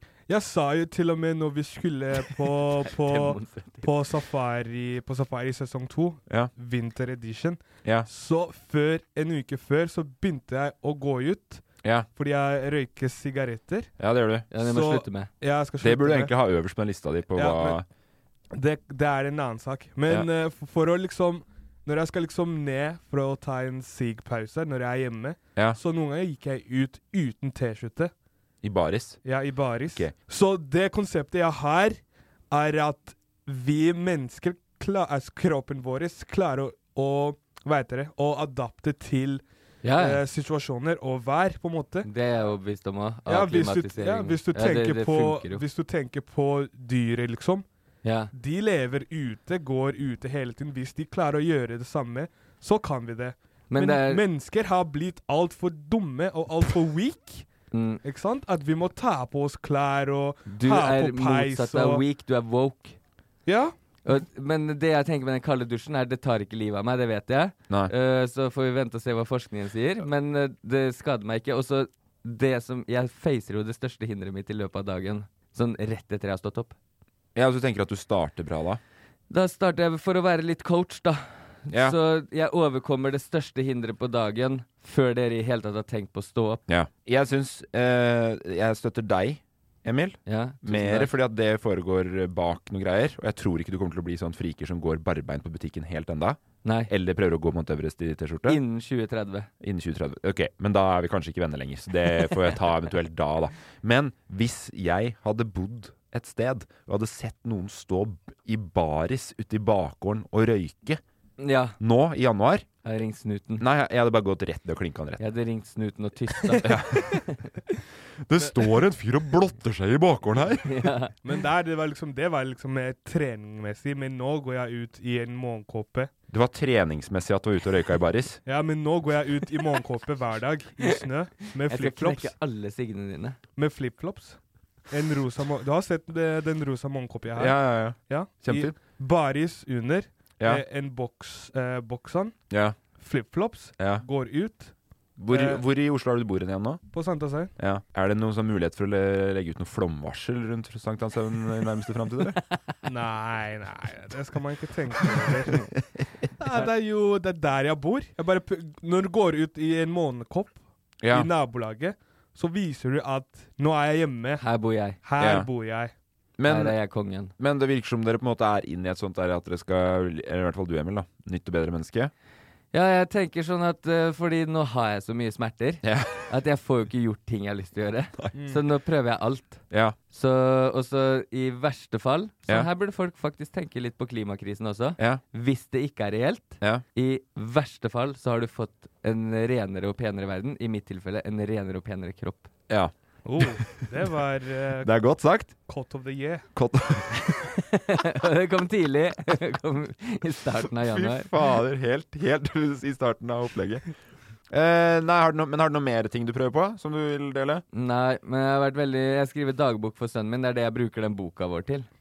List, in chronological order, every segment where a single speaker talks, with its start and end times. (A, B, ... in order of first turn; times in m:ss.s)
0:00.3-0:11.6 A
0:02.8-0:03.9 B
0:11.8-0:12.1 C
0:12.2-0:13.9 A
0:14.0-0:14.5 C
0:14.5-0:15.3 B
0:14.6-0:16.3 A
0:15.8-0:17.8 C
0:17.3-0:17.8 A
0:18.5-0:28.1 A
0:28.6-0:29.2 C
0:29.2-0:39.4 A
0:29.9-0:30.1 C
0:39.8-0:40.2 B
0:40.0-0:42.1 A
0:42.0-0:45.6 B
0:43.2-0:47.6 A
0:48.0-0:48.3 B
0:48.3-0:57.5 A
0:53.7-0:54.2 B
0:57.7-0:58.0 B
0:58.0-1:02.0 A
1:00.5-1:03.0 B
1:03.4-1:03.7 A
1:04.0-1:16.7 B
1:17.3-1:18.8 C
1:19.3-1:26.6 B
1:21.7-1:22.0 C
1:26.7-1:38.6 C
1:30.3-1:31.1 B
1:36.6-1:36.9 B
1:38.5-1:39.5 B
1:39.6-1:51.0 C
1:51.4-1:51.8 B
1:51.8-1:52.7 C
1:52.8-1:53.6 B
1:53.6-1:55.2 C
1:55.2-1:57.5 B
1:56.6-1:57.2 C
1:58.2-2:00.9 C
2:00.6-2:01.1 B
2:01.2-2:06.1 A
2:06.3-2:08.4 C
2:08.4-2:12.3 A
2:11.7-2:13.4 B
2:13.6-2:14.4 A
2:14.9-2:22.4 A
2:17.3-2:18.7 C
2:22.5-2:22.8 C
2:23.0-2:24.7 A
2:23.8-2:24.0 C
2:25.2-2:26.8 C
2:25.3-2:25.6 A
2:26.9-2:27.5 A
2:27.6-2:32.4 C
2:32.8-2:35.7 A
2:36.4-2:40.6 A
2:41.0-2:41.3 C
2:41.1-2:44.4 A
2:44.4-2:45.0 B
2:45.0-2:45.9 A
2:45.2-2:45.5 C
2:46.4-2:46.8 C
2:46.5-2:47.3 B
2:47.4-2:52.1 C
2:52.7-3:12.5 B
2:55.8-2:56.3 C
2:58.3-2:58.6 A
2:59.7-3:00.0 C
3:12.7-3:13.7 C
3:13.2-3:14.9 A
3:14.8-3:15.5 C
3:15.6-3:16.4 A
3:16.5-3:17.1 C
3:17.3-3:21.3 B
3:20.8-3:23.8 C
3:24.5-3:27.6 C
3:27.7-3:31.9 B